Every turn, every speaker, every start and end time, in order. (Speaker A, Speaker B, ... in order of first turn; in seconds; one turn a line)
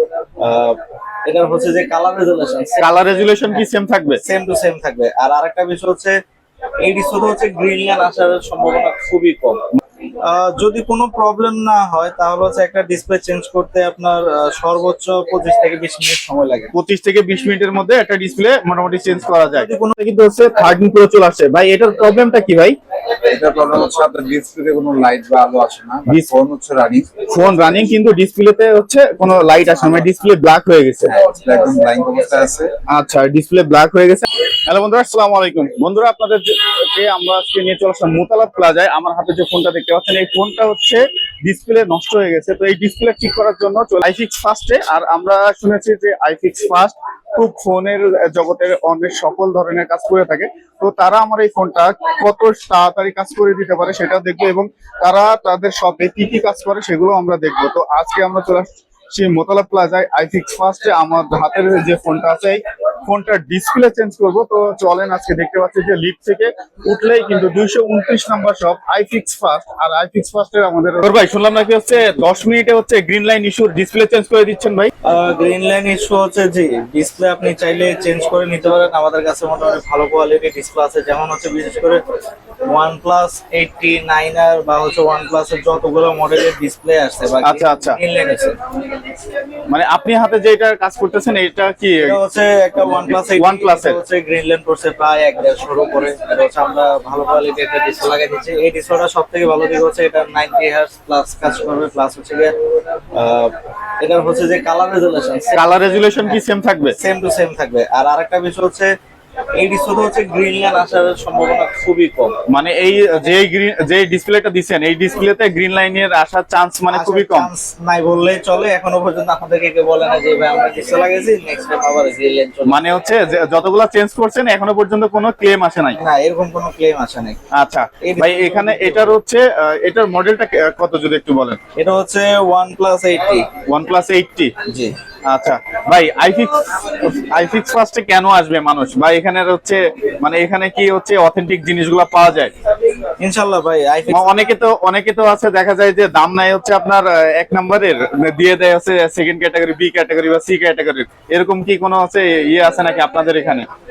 Speaker A: 0.4-3.7
Speaker B: 2.8-4.2
Speaker A: 4.2-6.2
Speaker A: 6.8-9.6
Speaker A: 10.3-16.7
Speaker B: 16.7-22.8
Speaker A: 19.2-19.9
Speaker C: 23.3-27.2
Speaker B: 27.3-31.2
Speaker A: 29.5-30.1
Speaker C: 31.1-32.7
Speaker B: 32.9-74.9
Speaker A: 75.0-82.0
Speaker A: 82.7-88.6
Speaker B: 87.4-88.0
Speaker B: 89.7-92.2
Speaker A: 92.0-102.5
Speaker B: 93.1-94.0
Speaker A: 103.1-108.9
Speaker B: 105.5-107.0
Speaker A: 109.5-112.4
Speaker B: 112.5-117.5
Speaker A: 116.9-122.8
Speaker B: 122.7-126.0
Speaker A: 126.0-127.4
Speaker B: 127.5-131.6
Speaker A: 128.0-129.2
Speaker A: 131.8-133.5
Speaker B: 133.7-134.5
Speaker A: 134.7-134.9
Speaker B: 135.3-142.5
Speaker A: 143.2-144.4
Speaker B: 144.1-153.7